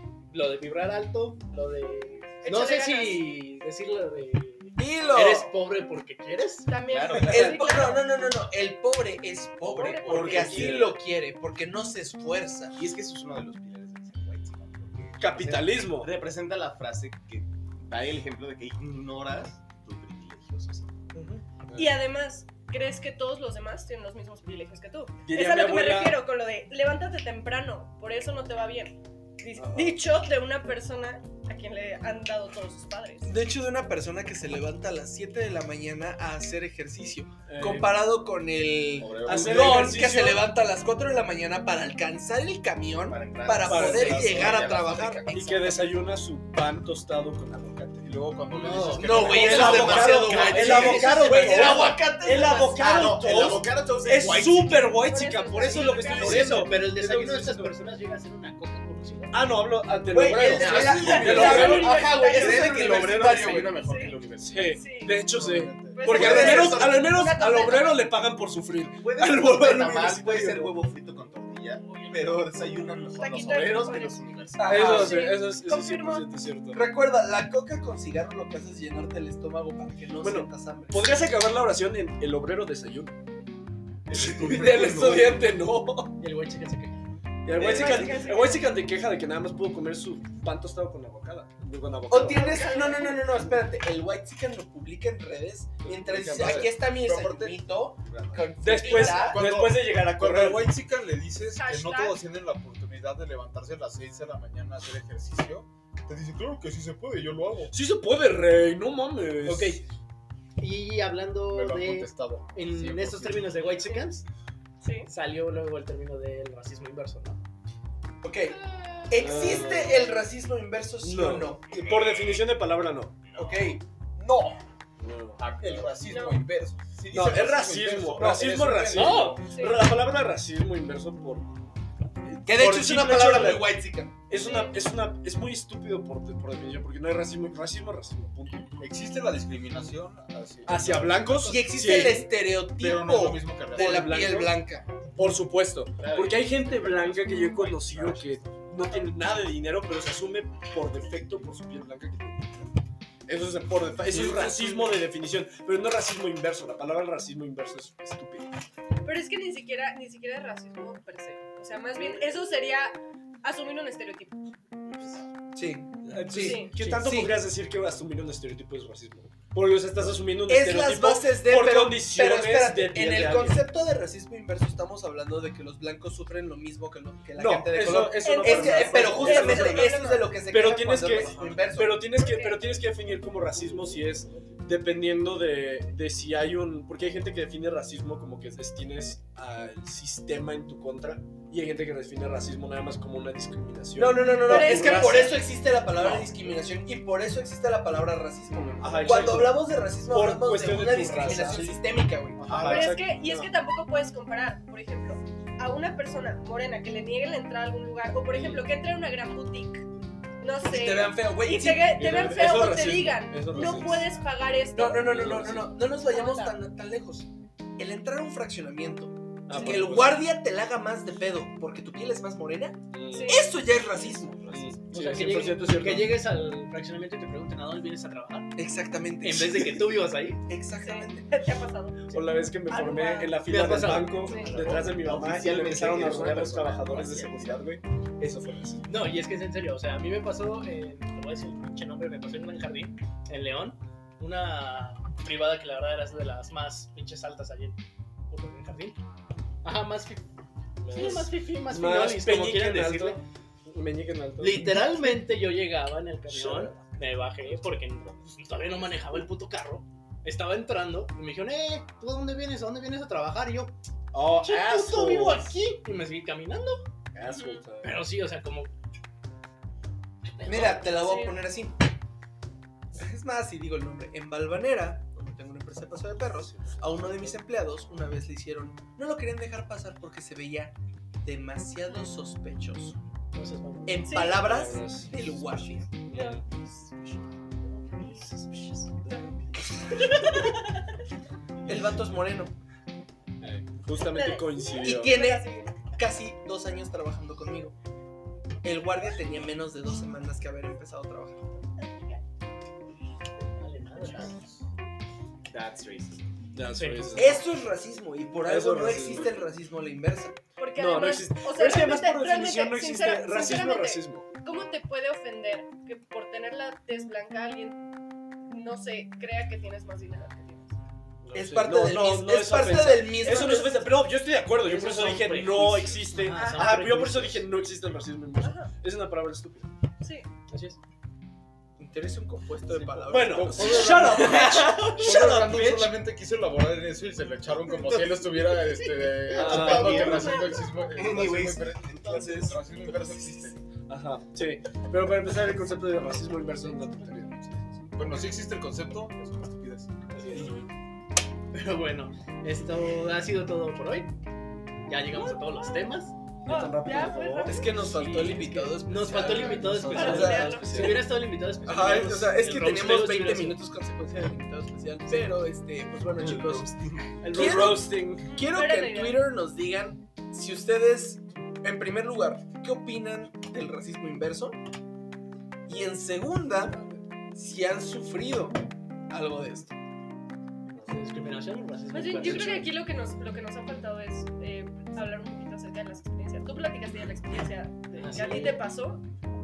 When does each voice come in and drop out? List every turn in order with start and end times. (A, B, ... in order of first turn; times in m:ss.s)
0:00.3-0:06.7 A
0:02.4-0:03.2 B
0:04.8-0:05.5 C
0:06.7-0:08.2 B
0:06.9-0:07.4 D
0:07.1-0:12.8 C
0:07.2-0:07.6 E
0:09.6-0:10.7 B
0:10.1-0:11.0 E
0:10.1-0:10.6 D
0:12.7-0:20.9 D
0:15.2-0:16.2 E
0:21.1-0:22.0 E
0:21.7-0:33.4 B
0:25.2-0:26.2 E
0:29.6-0:30.0 E
0:33.3-0:45.9 C
0:37.5-0:38.0 E
0:39.0-0:40.0 D
0:39.2-0:40.5 E
0:43.0-0:45.3 D
0:43.6-0:48.2 E
0:48.0-0:50.8 F
0:48.5-0:49.9 A
0:49.0-0:53.7 C
0:49.1-0:49.7 D
0:49.1-0:57.7 E
0:50.4-0:55.0 D
0:55.0-0:56.7 B
0:56.1-0:59.5 A
0:59.3-1:03.7 E
1:00.1-1:03.7 C
1:00.4-1:04.1 D
1:01.1-1:02.6 B
1:01.4-1:01.6 F
1:02.8-1:06.6 F
1:03.8-1:05.2 B
1:04.4-1:10.7 E
1:05.9-1:08.1 B
1:09.0-1:15.0 D
1:13.2-1:16.3 B
1:14.6-1:15.3 C
1:14.6-1:16.8 E
1:16.7-1:21.2 C
1:20.2-1:23.2 E
1:24.1-1:25.3 D
1:24.1-1:26.2 E
1:24.4-1:25.3 F
1:26.2-1:27.0 A
1:27.4-1:32.8 E
1:27.5-1:28.7 B
1:32.1-1:39.4 C
1:32.2-1:33.3 B
1:35.9-1:38.4 F
1:36.0-1:36.7 E
1:38.6-1:40.7 E
1:38.7-1:39.4 B
1:39.2-1:47.7 F
1:41.5-1:42.2 B
1:47.7-1:49.8 E
1:49.4-1:49.8 A
1:50.6-1:54.2 A
1:51.5-1:53.8 F
1:54.8-1:55.1 B
1:55.1-1:57.4 A
1:58.2-1:58.6 C
1:59.1-2:01.7 C
1:59.2-2:00.1 E
2:01.0-2:03.2 E
2:03.4-2:03.8 C
2:04.2-2:04.6 F
2:05.0-2:05.9 E
2:05.4-2:09.5 F
2:06.0-2:06.4 B
2:07.1-2:11.5 E
2:08.9-2:09.4 A
2:09.4-2:09.8 B
2:12.2-2:18.8 E
2:12.4-2:14.1 C
2:14.3-2:14.8 B
2:18.8-2:21.6 F
2:20.6-2:22.3 E
2:21.4-2:24.9 C
2:22.8-2:24.2 F
2:23.7-2:24.6 E
2:25.2-2:32.6 E
2:26.0-2:28.5 D
2:28.8-2:29.1 B
2:33.3-2:38.5 E
2:33.4-2:35.0 F
2:39.0-2:44.4 B
2:45.5-2:47.4 C
2:46.0-2:53.6 E
2:46.4-2:46.8 B
2:50.4-3:02.0 C
2:57.4-3:15.4 E
2:58.2-3:00.3 B
3:02.1-3:02.6 B
3:14.0-3:22.6 C
3:14.5-3:15.3 B
3:16.0-3:16.3 E
3:18.8-3:21.8 E
3:22.4-3:23.5 E
3:22.5-3:29.9 B
3:28.3-3:28.7 E
3:30.4-3:36.6 B
3:30.6-3:32.0 C
3:31.9-3:34.2 E
3:34.7-3:37.3 C
3:35.2-3:35.7 E
3:37.8-3:44.6 C
3:39.5-3:40.2 E
3:42.9-3:43.4 E
3:43.1-3:43.5 B
3:44.5-3:46.2 E
3:44.9-3:48.5 A
3:48.6-3:51.3 C
3:49.2-3:50.4 A
3:50.8-3:53.4 B
3:52.1-3:57.8 E
3:53.4-3:54.7 A
3:54.3-3:54.7 B
3:54.3-3:58.8 D
3:58.9-4:09.0 A
4:09.6-4:10.3 A
4:10.8-4:15.2 E
4:10.9-4:13.2 A
4:14.4-4:23.8 A
4:16.3-4:17.8 E
4:24.1-4:25.5 E
4:24.3-4:26.9 A
4:27.2-4:28.0 E
4:27.2-4:27.6 B
4:27.8-4:28.7 A
4:30.3-4:31.0 A
4:30.4-4:31.8 C
4:30.9-4:31.4 B
4:33.0-4:43.0 C
4:36.3-4:37.4 E
4:43.3-4:44.2 A
4:43.9-4:45.9 C
4:44.1-4:44.4 B
4:44.3-4:45.4 E
4:46.0-4:46.5 E
4:46.1-4:46.4 B
4:49.1-4:50.8 B
4:51.6-4:52.6 C
4:53.4-4:55.2 E
4:54.0-4:55.8 B
4:54.8-4:57.7 C
4:58.6-5:01.5 C
5:01.8-5:02.2 B
5:03.6-5:04.3 A
5:04.0-5:04.6 F
5:05.5-5:06.3 D
5:06.5-5:07.4 E
5:06.7-5:07.4 A
5:07.2-5:10.4 C
5:08.4-5:09.4 E
5:10.6-5:17.8 B
5:10.8-5:14.3 E
5:18.5-5:20.7 B
5:21.2-5:29.7 E
5:21.3-5:23.8 C
5:23.2-5:23.9 B
5:24.6-5:27.5 A
5:26.3-5:26.7 B
5:28.4-5:28.7 B
5:30.0-5:30.3 B
5:30.5-5:30.8 A
5:31.8-5:35.8 C
5:32.7-5:43.6 F
5:33.1-5:35.9 E
5:37.8-5:38.6 D
5:39.3-5:40.4 E
5:39.3-5:43.1 D
5:39.7-5:40.6 B
5:43.9-5:47.8 E
5:47.9-5:49.9 F
5:50.1-5:50.6 A
5:50.3-5:50.7 E
5:51.5-5:54.1 A
5:54.9-5:56.2 A
5:56.4-5:57.6 E
5:56.5-5:57.9 B
5:57.5-6:01.0 C
5:57.7-6:03.6 A
5:59.1-6:01.0 B
5:59.2-6:01.1 E
6:01.6-6:06.7 C
6:06.1-6:07.2 D
6:07.2-6:08.3 E
6:07.3-6:14.6 C
6:08.2-6:09.2 B
6:15.7-6:16.8 C
6:17.3-6:19.8 C
6:20.8-6:22.8 A
6:21.9-6:29.1 B
6:22.2-6:22.5 E
6:27.9-6:28.6 A